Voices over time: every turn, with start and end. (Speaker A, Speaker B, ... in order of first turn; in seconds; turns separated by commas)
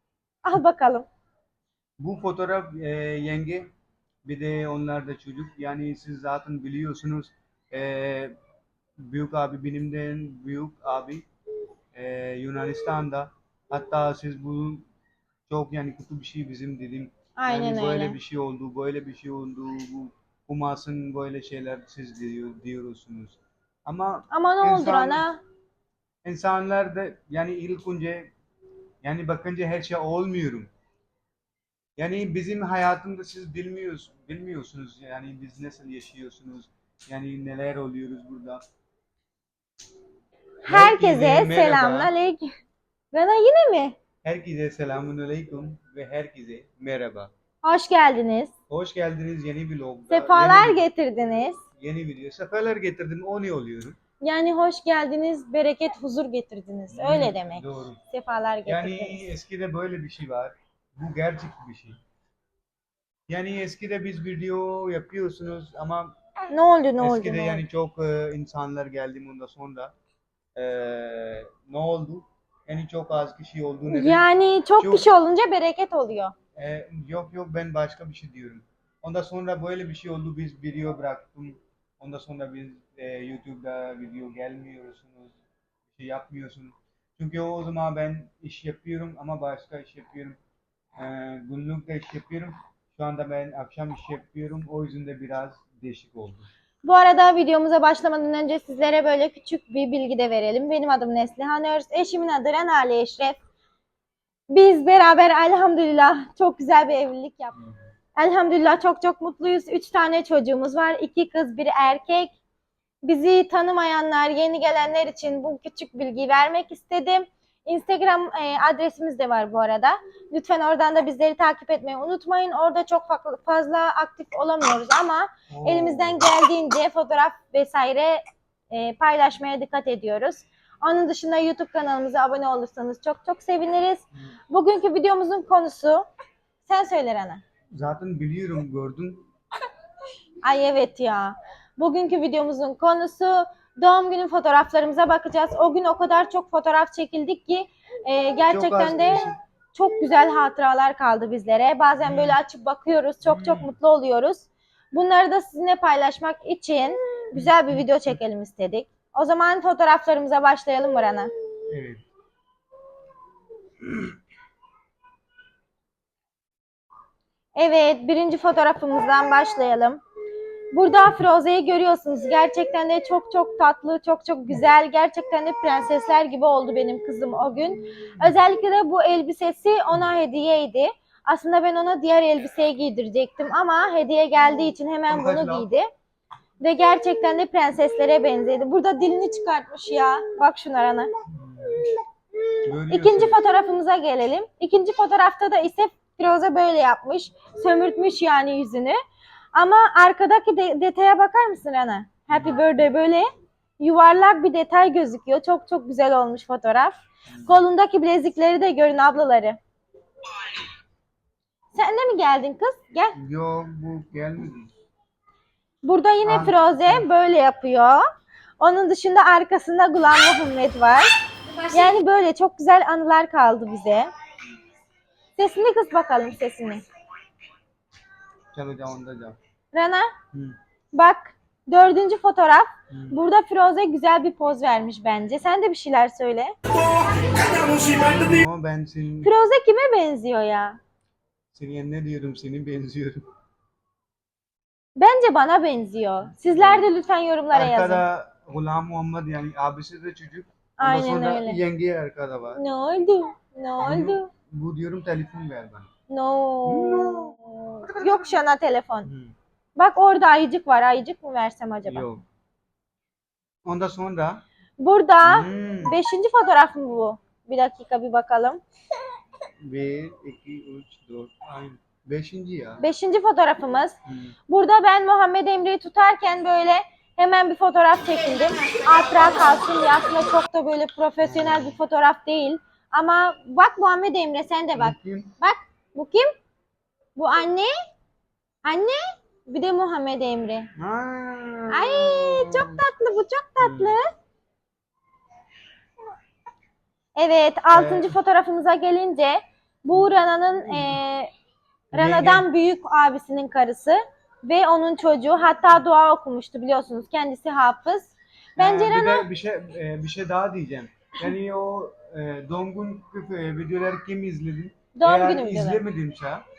Speaker A: 0.4-1.1, Speaker B: 2.0-3.7, Speaker B: 4.2-8.3, Speaker B: 9.0-11.3, Speaker B: 11.9-14.8, Speaker B: 15.5-25.3, Speaker A: 17.4-18.2, Speaker A: 24.3-25.4, Speaker B: 26.2-28.3, Speaker B: 29.0-30.7, Speaker B: 32.0-38.6, Speaker A: 40.6-42.5, Speaker B: 40.7-42.1, Speaker A: 43.1-44.0, Speaker B: 44.2-47.3, Speaker A: 47.6-48.5, Speaker B: 48.7-50.9, Speaker A: 50.1-51.6, Speaker B: 51.8-54.0, Speaker A: 54.2-59.3, Speaker B: 56.9-58.0, Speaker B: 58.7-62.0, Speaker B: 63.3-66.1, Speaker A: 66.5-67.6, Speaker B: 67.0-69.9, Speaker B: 70.5-74.3, Speaker A: 73.9-76.3, Speaker B: 74.8-75.1, Speaker B: 76.6-85.4, Speaker B: 85.9-90.4, Speaker B: 91.0-96.5, Speaker A: 96.8-103.4, Speaker A: 104.5-107.6, Speaker A: 108.2-112.3, Speaker A: 113.0-136.1, Speaker B: 125.5-126.3, Speaker A: 136.6-137.4, Speaker B: 137.7-139.3, Speaker A: 140.4-161.3, Speaker B: 148.5-149.4, Speaker B: 152.0-152.4, Speaker B: 153.2-153.8, Speaker B: 157.3-158.2, Speaker B: 161.7-162.0, Speaker B: 163.8-164.1, Speaker A: 167.6-170.0, Speaker A: 170.7-185.9, Speaker B: 185.1-185.7, Speaker A: 186.6-191.1, Speaker B: 191.3-192.0, Speaker B: 192.7-193.4, Speaker A: 192.9-199.0, Speaker A: 199.5-203.3, Speaker B: 202.3-202.6, Speaker A: 203.8-206.9, Speaker B: 207.3-207.6, Speaker A: 207.5-209.6, Speaker A: 211.7-213.2, Speaker B: 213.2-214.7, Speaker A: 215.8-218.0, Speaker B: 216.2-217.1, Speaker A: 218.6-221.1, Speaker A: 221.7-224.1, Speaker A: 225.4-226.8, Speaker B: 228.5-229.4, Speaker A: 229.7-230.1, Speaker A: 230.9-236.6, Speaker B: 232.9-233.2, Speaker B: 237.4-239.3, Speaker A: 239.2-240.8, Speaker B: 241.5-243.2, Speaker A: 245.0-248.0, Speaker B: 246.4-246.9, Speaker B: 247.5-252.6, Speaker A: 250.8-251.6, Speaker A: 252.6-254.3, Speaker B: 253.8-255.9, Speaker A: 256.1-259.1, Speaker B: 256.6-257.4, Speaker B: 259.1-259.3, Speaker A: 259.8-262.1, Speaker B: 261.9-262.2, Speaker B: 263.6-264.4, Speaker A: 264.8-268.6, Speaker B: 265.2-266.0, Speaker B: 269.6-272.8, Speaker A: 272.8-274.0, Speaker B: 274.1-274.4, Speaker A: 274.5-286.3, Speaker B: 281.2-281.8, Speaker B: 284.7-285.3, Speaker A: 287.2-287.7, Speaker A: 288.6-290.7, Speaker B: 290.8-292.8, Speaker A: 291.7-294.1, Speaker B: 293.6-294.0, Speaker A: 297.2-301.3, Speaker B: 297.7-298.2, Speaker B: 300.6-301.0, Speaker B: 301.9-302.5, Speaker A: 301.9-309.3, Speaker B: 308.6-316.4, Speaker A: 314.9-315.8